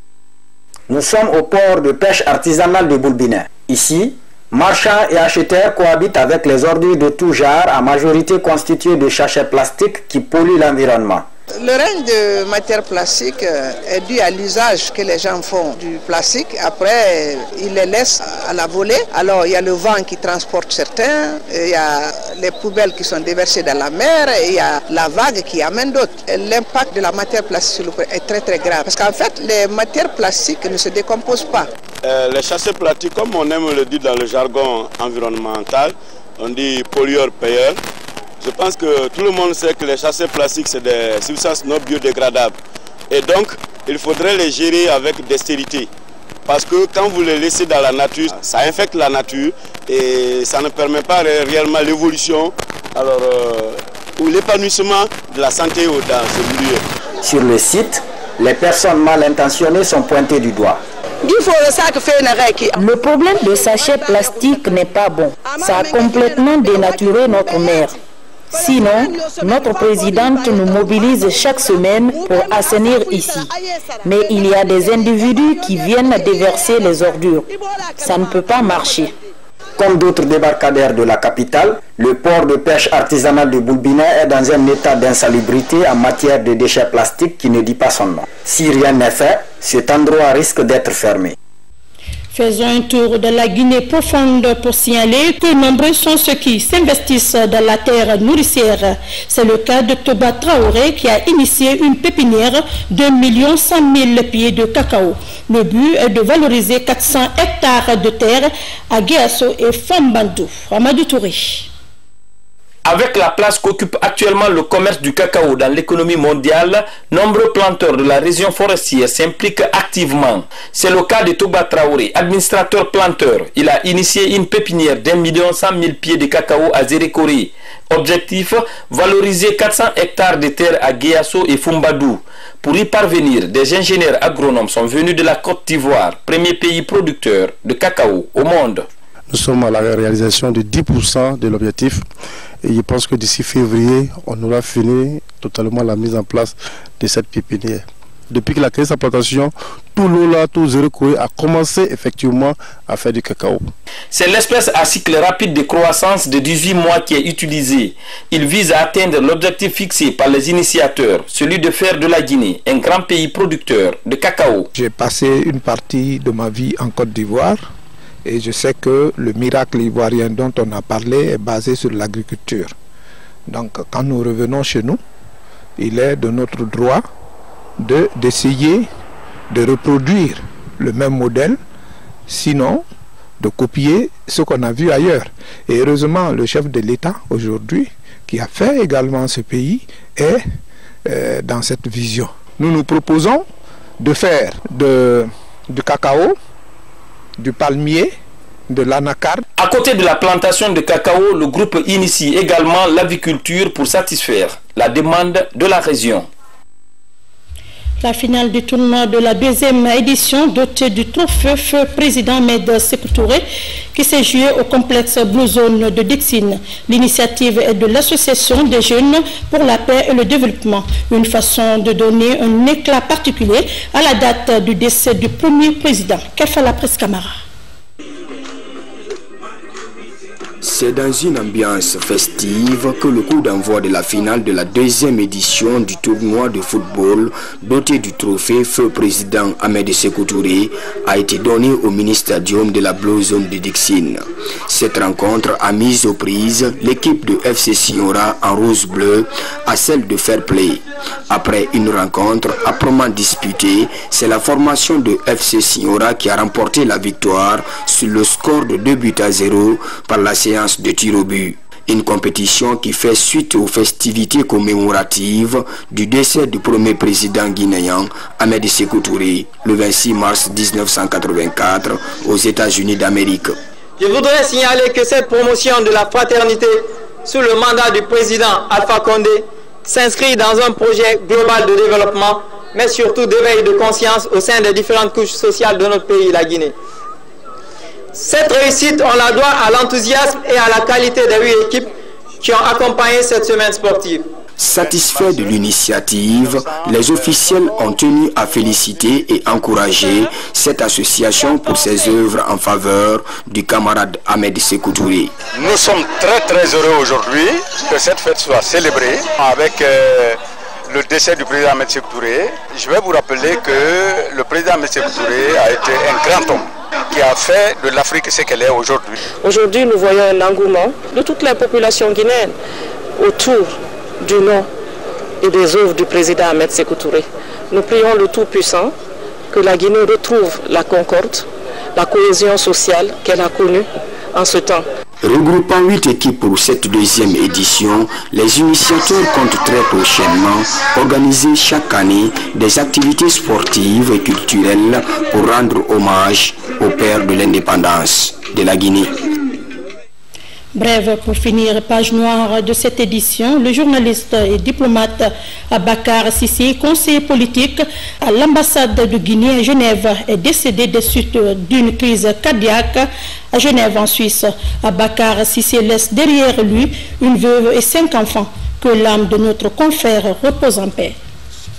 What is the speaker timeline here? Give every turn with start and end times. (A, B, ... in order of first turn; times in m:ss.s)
0:01.0-0:02.8 A
0:04.7-0:11.2 A
0:11.6-0:31.7 B
0:32.0-0:37.8 C
0:38.4-0:42.6 C
0:43.1-0:45.9 C
0:46.5-0:56.9 C
0:57.3-0:57.9 A
0:58.4-1:00.7 A
1:01.2-1:02.6 B
1:02.8-1:08.0 D
1:08.5-1:13.5 D
1:14.0-1:19.1 D
1:19.9-1:28.0 A
1:28.6-1:31.0 A
1:32.3-1:51.7 E
1:52.8-2:18.9 F
2:19.3-2:22.0 G
2:22.6-2:33.7 G
2:34.1-2:44.7 F
2:44.8-2:47.6 H
2:48.2-2:52.7 H
2:53.5-2:55.0 H
2:55.8-2:57.0 H
2:57.8-2:58.9 H
2:59.5-3:01.6 H
3:02.3-3:02.8 H
3:03.4-3:10.4 H
3:11.0-3:13.4 H
3:14.0-3:16.4 H
3:17.4-3:18.1 H
3:18.7-3:19.4 H
3:19.6-3:26.3 F
3:28.0-3:47.4 E
3:50.6-4:33.6 I
4:34.0-4:46.8 J
4:48.1-4:54.3 J
4:54.6-5:05.3 I
5:05.5-5:19.2 K
5:19.4-5:22.6 L
5:23.2-5:24.7 L
5:25.4-5:29.0 L
5:29.5-5:34.9 L
5:35.2-5:49.1 I
5:50.8-6:11.2 E